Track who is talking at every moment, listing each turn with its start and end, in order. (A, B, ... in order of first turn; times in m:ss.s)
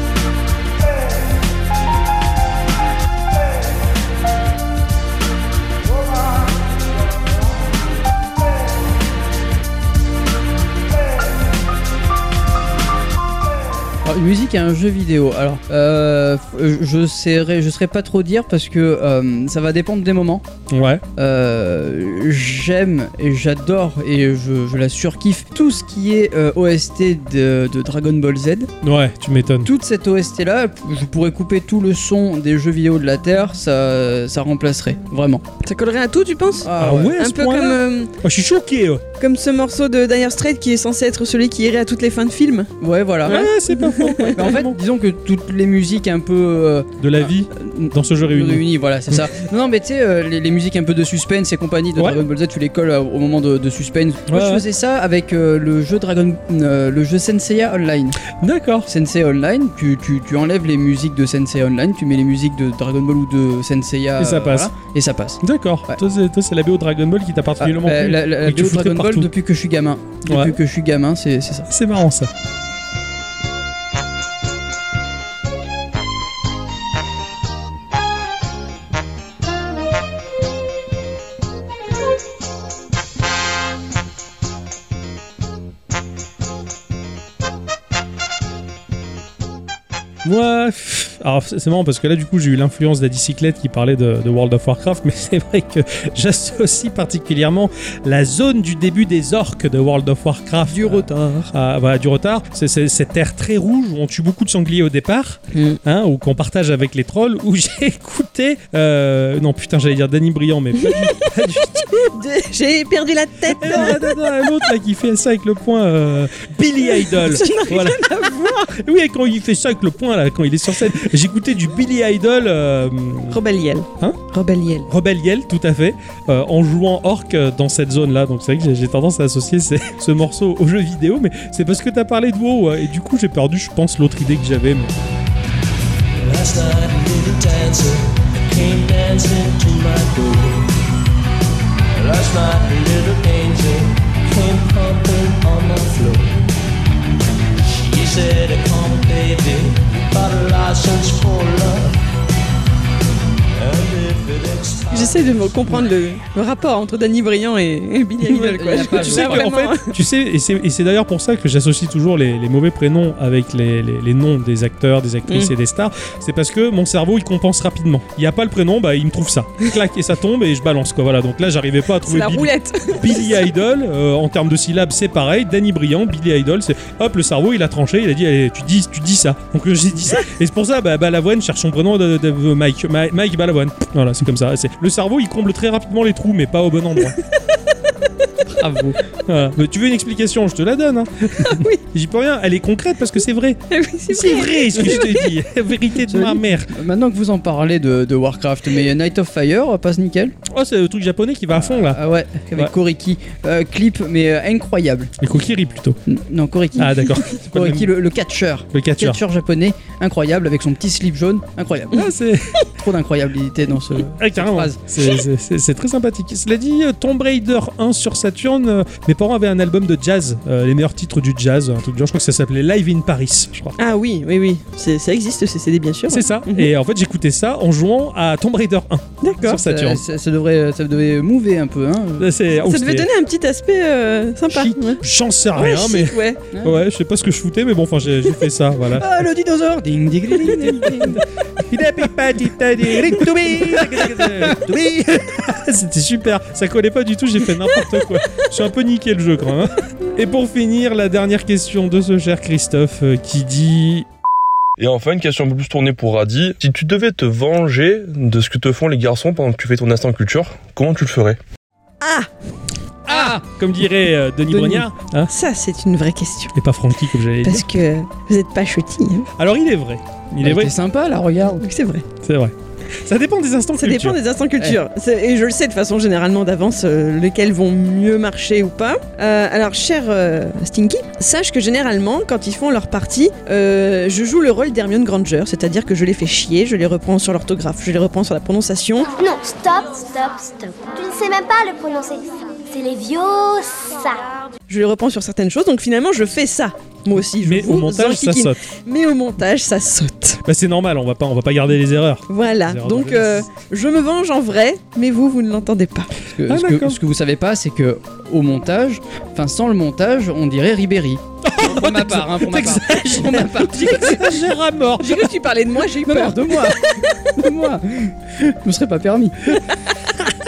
0:14.0-0:20.4 A
0:20.7-0:21.0 B
0:21.2-0:28.7 A
0:28.8-0:29.7 B
0:29.6-0:35.4 A
0:35.6-0:38.1 C
0:36.6-0:37.2 A
0:36.8-0:39.0 B
0:39.2-0:42.7 C
0:42.8-0:43.4 A
0:43.2-0:44.8 B
0:43.3-0:44.4 C
0:44.3-0:58.2 A
0:47.0-0:49.3 B
0:54.3-0:54.6 B
0:58.3-0:58.9 B
0:58.9-1:06.0 A
1:04.2-1:04.7 B
1:05.4-1:09.3 B
1:07.6-1:11.7 A
1:10.2-1:10.6 B
1:11.7-1:12.3 B
1:30.2-1:51.9 B
1:40.7-1:41.5 A
1:45.5-1:45.8 C
1:51.9-1:54.5 C
1:53.6-2:03.4 B
1:56.9-1:58.8 C
2:03.3-2:04.9 C
2:04.9-2:15.0 B
2:16.2-2:20.8 D
2:21.9-2:26.5 D
2:27.8-2:31.9 D
2:33.6-2:35.4 D
2:34.9-2:40.0 C
2:38.2-2:39.5 A
2:38.8-3:07.2 B
2:45.3-2:45.5 C
2:52.0-2:53.4 C
3:08.6-3:09.0 A
3:09.2-3:16.7 B
3:11.4-3:11.8 C
3:13.7-3:15.3 C
3:16.1-3:20.3 A
3:20.5-3:22.0 B
3:21.5-3:25.1 A
3:25.2-3:26.0 B
3:26.1-3:32.0 A
3:26.8-3:27.9 B
3:28.7-3:29.2 B
3:31.9-3:32.6 B
3:32.8-3:34.8 A
3:34.2-3:43.8 B
3:43.8-3:46.7 C
3:46.1-3:50.0 B
3:49.2-3:49.6 C
3:49.4-3:52.3 A
3:52.2-3:53.1 B
3:52.6-3:55.0 C
3:54.5-3:59.2 B
3:55.5-3:56.4 C
3:56.5-3:56.8 A
3:58.9-4:01.2 A
4:00.4-4:14.1 B
4:02.9-4:04.8 A
4:14.8-4:21.4 E
4:22.0-4:22.3 C
4:23.0-4:25.3 B
4:23.1-4:23.4 A
4:24.5-4:24.8 A
4:25.3-4:26.5 C
4:26.5-4:27.6 B
4:27.4-4:29.3 C
4:29.4-4:30.7 B
4:30.4-4:31.7 A
4:31.6-4:32.0 C
4:32.2-4:34.2 B
4:33.8-4:49.1 C
4:49.1-4:54.4 F
4:54.7-5:00.4 C
4:57.4-4:58.6 B
5:00.4-5:03.5 B
5:02.3-5:06.1 C
5:06.3-5:14.3 A
5:06.4-5:07.0 B
5:11.4-5:15.3 B
5:15.0-5:16.9 C
5:16.0-5:19.6 A